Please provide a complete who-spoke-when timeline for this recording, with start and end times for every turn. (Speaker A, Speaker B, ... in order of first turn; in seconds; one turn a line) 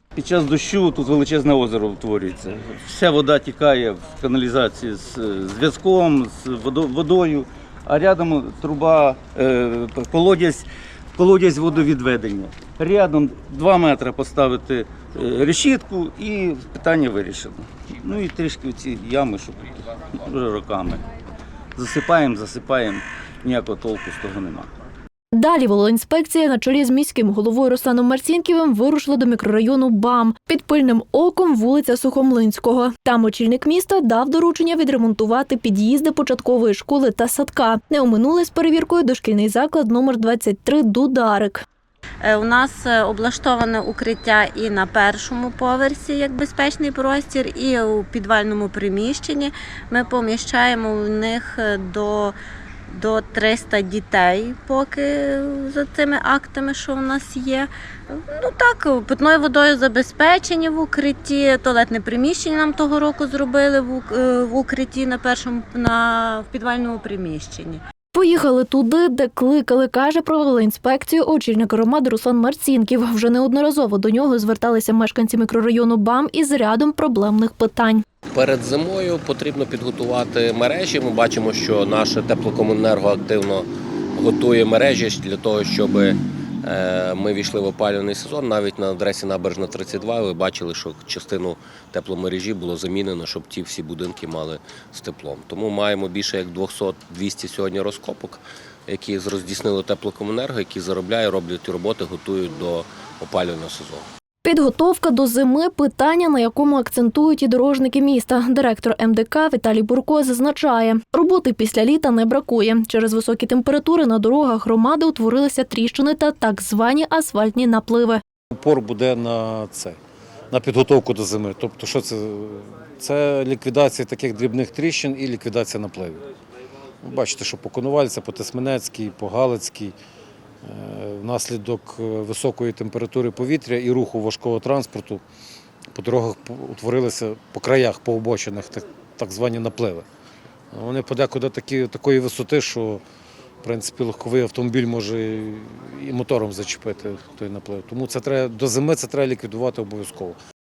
Speaker A: 0.1-21.0
Speaker A: 21.7-24.7
Speaker B: 25.3-41.6
Speaker C: 42.2-52.4
Speaker C: 52.9-67.8
Speaker B: 68.1-78.0
Speaker D: 78.3-104.1
Speaker B: 104.4-118.2
Speaker E: 118.5-120.0
Speaker E: 120.5-126.2
Speaker E: 127.0-129.9
Speaker E: 130.6-135.2
Speaker E: 135.9-140.1
Speaker E: 140.7-143.0
Speaker E: 143.6-150.4